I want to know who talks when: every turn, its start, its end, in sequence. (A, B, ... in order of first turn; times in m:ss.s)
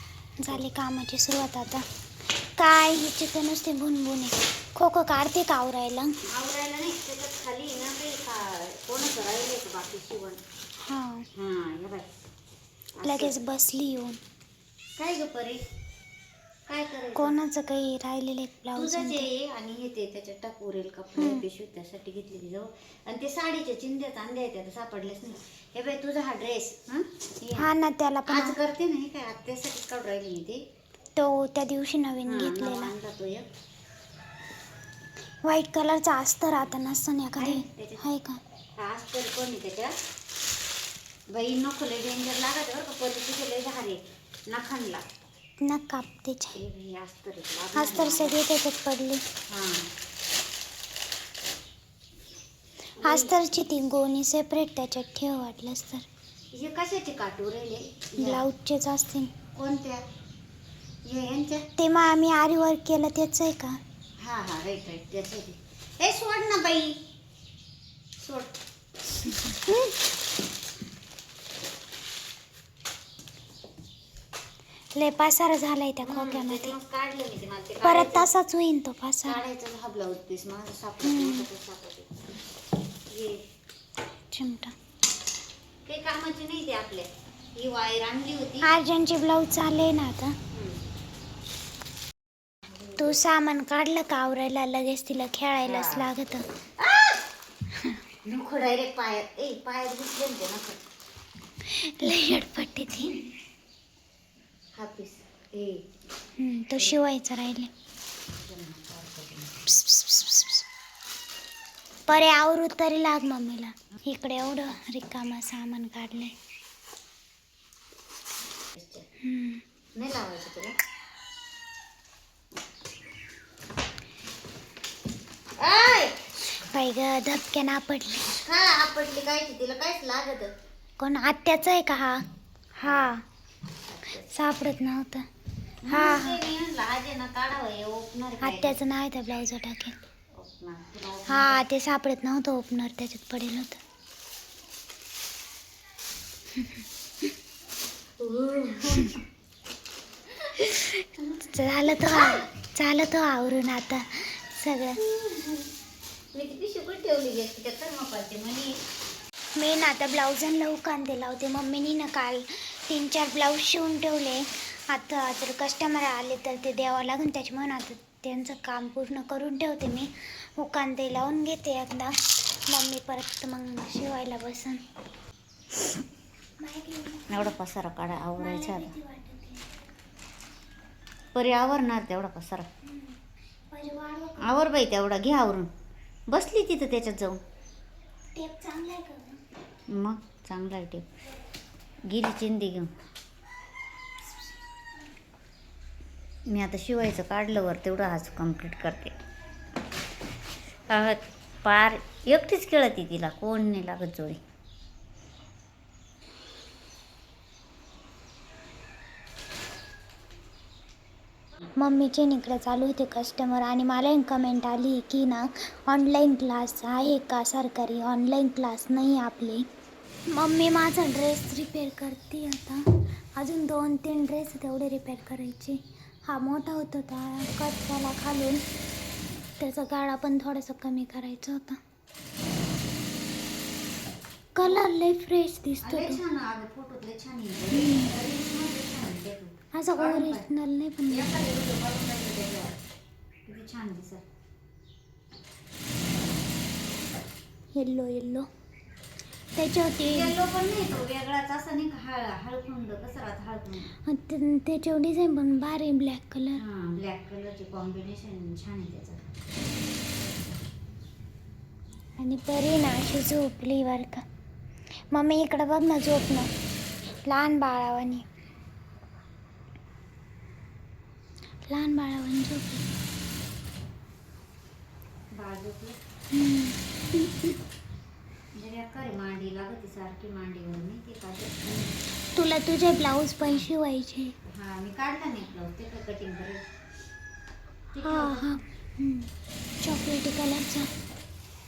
0:00.4-0:01.9 A
0:02.4-0:06.1 A
0:06.2-0:10.4 B
0:10.8-0:11.2 A
0:11.3-0:12.1 B
0:13.0-0:13.3 B
0:13.0-0:14.2 A
0:15.0-0:15.6 B
0:16.7-0:17.3 B
0:17.1-0:19.3 A
0:18.8-0:27.7 B
0:21.2-0:21.4 A
0:27.6-0:28.6 A
0:28.3-0:30.6 B
0:31.2-0:32.9 A
0:32.2-0:33.4 B
0:35.4-0:38.4 A
0:37.4-0:38.0 B
0:38.8-0:40.0 B
0:41.3-0:45.1 B
0:45.6-0:46.6 A
0:46.5-0:48.4 B
0:47.7-0:49.2 A
0:49.5-0:49.9 B
0:53.0-0:53.3 B
0:53.0-0:56.1 A
0:56.5-0:58.4 B
0:58.2-0:59.3 A
0:59.5-1:00.0 B
1:01.0-1:01.7 B
1:01.8-1:03.8 A
1:04.2-1:07.0 B
1:08.2-1:08.6 B
1:15.0-1:16.8 A
1:16.0-1:18.3 B
1:17.8-1:19.4 A
1:19.2-1:22.2 B
1:21.0-1:21.4 A
1:23.1-1:23.4 B
1:24.3-1:24.7 A
1:25.8-1:28.7 B
1:28.6-1:30.4 A
1:30.5-1:30.8 B
1:32.7-1:33.2 B
1:33.0-1:36.4 A
1:35.6-1:36.1 B
1:36.8-1:37.2 B
1:37.7-1:38.0 A
1:38.2-1:40.8 B
1:41.6-1:43.2 A
1:44.7-1:45.8 B
1:46.4-1:47.7 A
1:46.8-1:47.0 B
1:48.4-1:49.6 B
1:49.7-1:50.6 A
1:52.1-1:56.3 A
1:58.7-1:59.0 B
1:59.2-1:59.6 A
2:00.0-2:00.7 B
2:05.6-2:06.3 B
2:06.6-2:08.3 A
2:08.2-2:10.5 B
2:11.0-2:13.2 A
2:12.8-2:13.1 B
2:13.9-2:14.3 B
2:14.3-2:15.2 A
2:15.8-2:18.8 B
2:15.9-2:16.4 A
2:18.4-2:20.0 A
2:20.4-2:21.6 B
2:21.3-2:23.8 A
2:28.2-2:29.2 B
2:30.6-2:35.0 A
2:32.0-2:32.4 B
2:35.0-2:35.6 B
2:36.3-2:38.8 B
2:39.6-2:54.8 A
2:56.6-2:57.5 A
2:57.3-2:58.9 B
2:58.4-2:59.7 A
3:01.3-3:02.7 B
3:02.8-3:03.1 A
3:03.7-3:04.6 A
3:04.4-3:05.7 B
3:06.3-3:07.4 B
3:08.3-3:09.4 A
3:09.9-3:11.0 B
3:12.1-3:12.9 B
3:16.5-3:19.2 B
3:20.9-3:24.4 B
3:31.8-3:39.6 A
3:40.3-3:48.6 A
3:49.6-3:51.8 A
3:54.6-3:56.2 A
3:55.8-4:00.4 B
3:59.7-4:01.4 A
4:01.1-4:02.8 B
4:03.4-4:04.2 B
4:07.7-4:08.5 A
4:09.6-4:10.4 A
4:10.1-4:13.9 B
4:14.0-4:16.6 A
4:16.6-4:19.2 B
4:22.2-4:24.2 A
4:25.1-4:26.5 A
4:27.3-4:28.2 A
4:31.6-4:32.8 A
4:35.3-4:36.0 B
4:36.3-4:36.8 A
4:38.5-4:41.9 B
4:42.3-4:44.3 A
4:44.5-4:46.6 B
4:47.9-4:48.4 B
4:48.0-4:49.3 A
4:49.8-4:50.9 A